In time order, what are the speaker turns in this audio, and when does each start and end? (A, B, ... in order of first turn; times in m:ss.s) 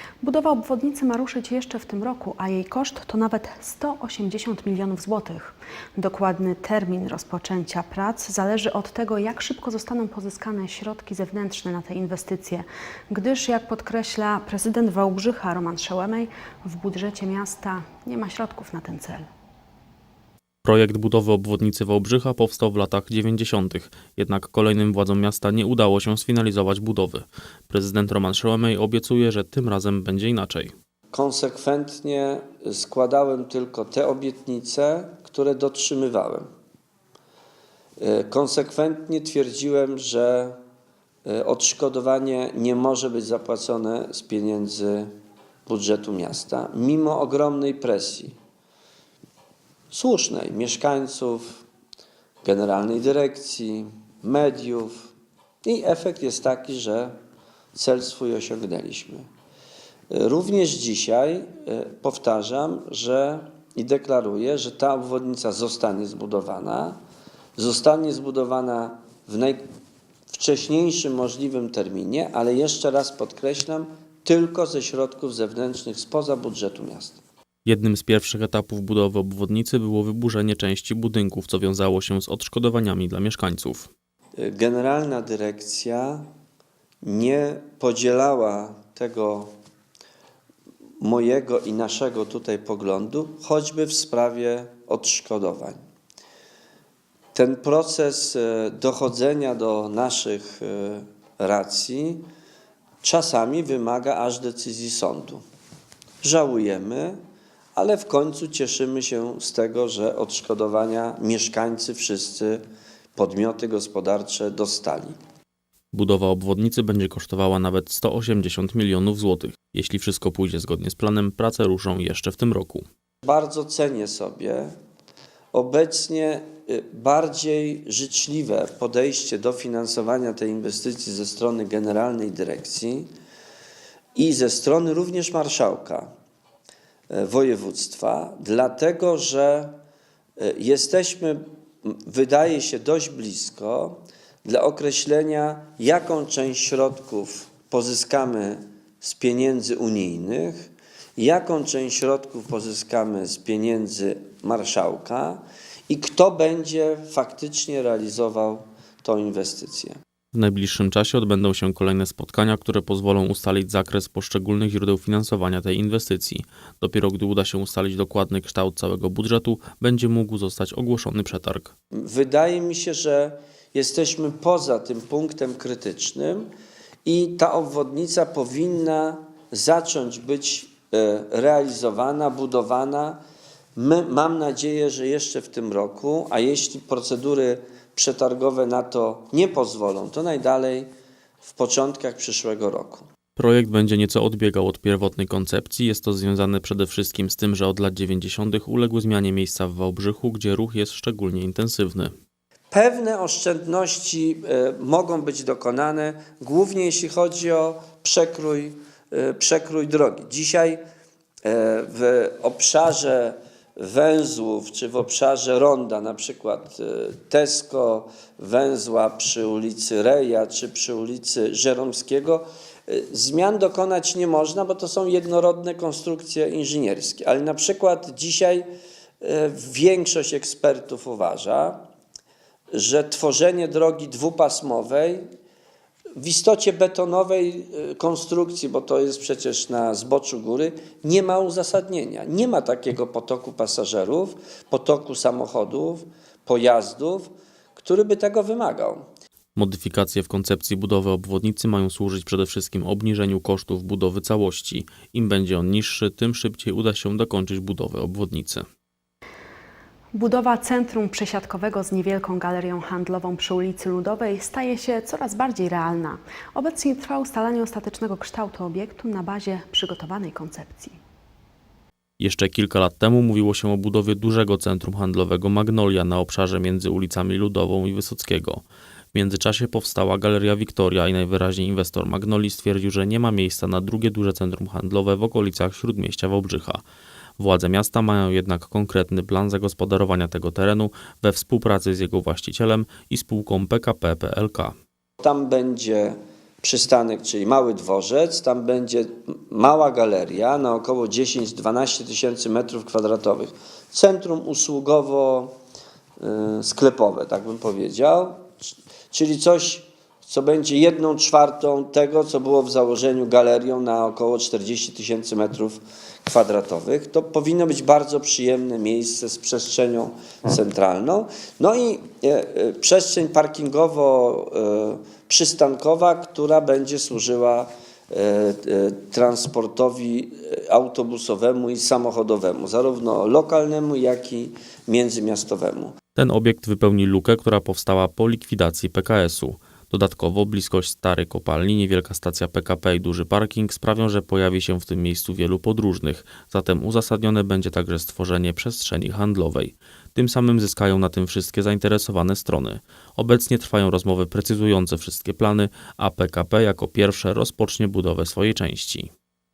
0:00.2-0:19.3 A
0:20.6-0:30.7 B
0:31.1-0:36.5 C
0:38.0-0:40.6 C
0:41.2-0:45.1 C
0:45.7-0:48.4 C
0:49.9-0:51.6 C
0:52.4-0:55.1 C
0:55.6-0:57.2 C
0:57.7-0:59.3 C
1:00.1-1:07.0 C
1:07.6-1:09.6 C
1:10.3-1:17.2 C
1:17.6-1:23.9 B
1:24.4-1:26.3 C
1:27.0-1:29.5 C
1:31.0-1:35.8 C
1:37.3-1:42.3 C
1:43.0-1:45.4 C
1:46.2-1:47.2 C
1:47.8-1:52.6 C
1:53.2-1:55.2 C
1:55.9-2:02.8 B
2:03.2-2:04.7 C
2:05.5-2:13.1 C
2:14.1-2:16.1 C
2:17.1-2:19.8 C
2:20.4-2:40.0 C
2:40.3-2:51.7 B
2:51.9-2:56.5 C
2:57.0-3:03.2 C
3:03.8-3:10.9 C
3:11.4-3:13.0 C
3:13.4-3:22.1 B
3:22.7-3:30.8 C
3:31.4-3:48.7 C
3:49.2-3:51.8 C
3:52.7-3:55.2 C
3:56.2-4:09.1 C
4:09.6-4:18.6 B
4:20.1-4:31.0 A
4:32.2-4:38.6 B
4:39.1-4:46.8 B
4:47.4-4:54.7 B
4:55.2-5:05.5 C
5:06.2-5:36.0 C
5:36.2-5:59.1 B